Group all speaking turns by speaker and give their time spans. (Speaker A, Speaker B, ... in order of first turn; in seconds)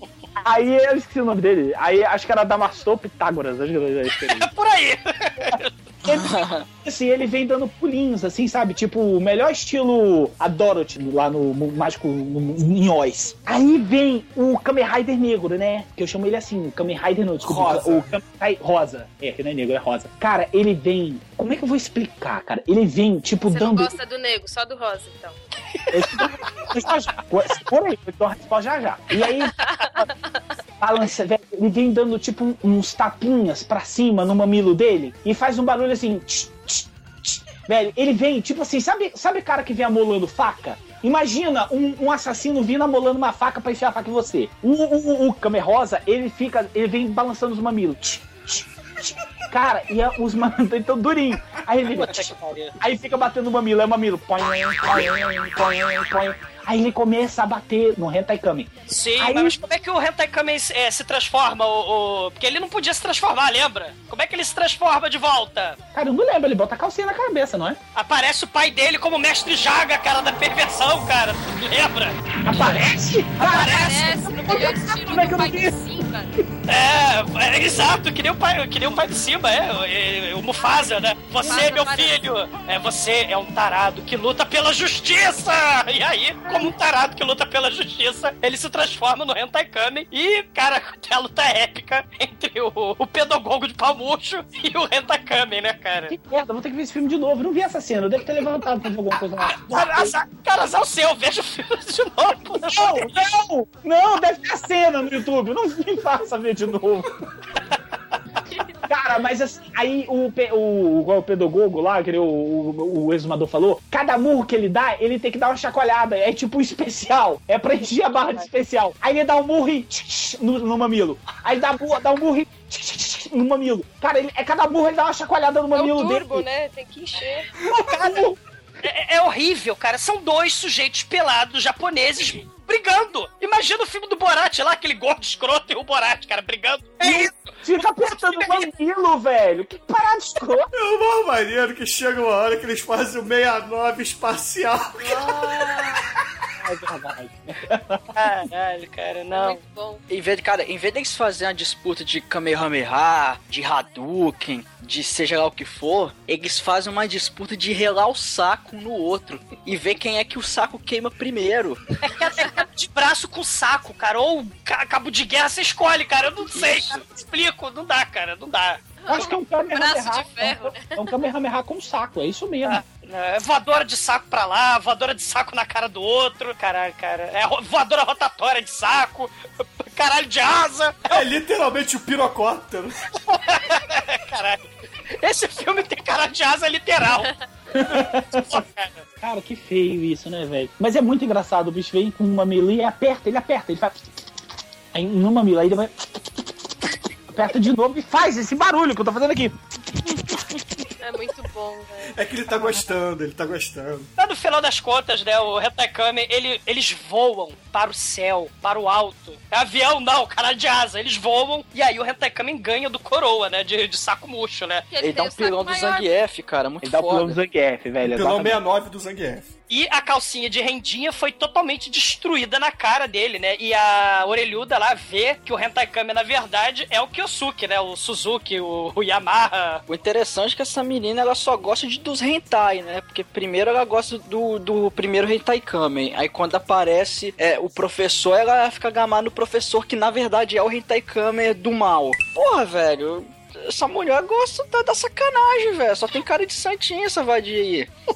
Speaker A: 0.4-4.5, 5.5-23.9, 25.9-29.6, 30.8-59.6, 65.9-67.8, 72.4-75.8, 96.1-100.1, 102.7-107.1, 108.8-126.5, 127.6-128.4, 137.0-140.7, 146.6-148.5, 169.1-172.8, 187.7-188.6, 189.2-194.0, 194.9-196.4, 197.3-200.8, 216.8-218.6
Speaker B: 4.1-5.7, 51.9-52.7, 58.9-65.8, 68.0-72.8, 73.4-74.3, 76.7-96.1, 99.5-103.2, 127.9-128.3, 128.8-138.7, 145.0-146.0, 148.2-149.6, 162.0-168.9, 172.7-181.2, 183.3-184.7, 185.2-187.3, 187.9-189.0, 204.2-214.9, 219.7-229.8
Speaker C: 6.0-6.7, 150.1-161.8, 166.5-167.0, 215.0-217.4, 229.9-247.9
Speaker D: 17.4-18.1, 140.7-145.9, 181.1-183.0, 202.1-204.1, 218.0-219.5
Speaker E: 23.5-25.4, 29.6-30.4, 73.4-76.3, 81.4-82.2, 125.7-127.5, 149.3-150.0, 169.0-171.2, 201.0-202.1, 214.9-216.1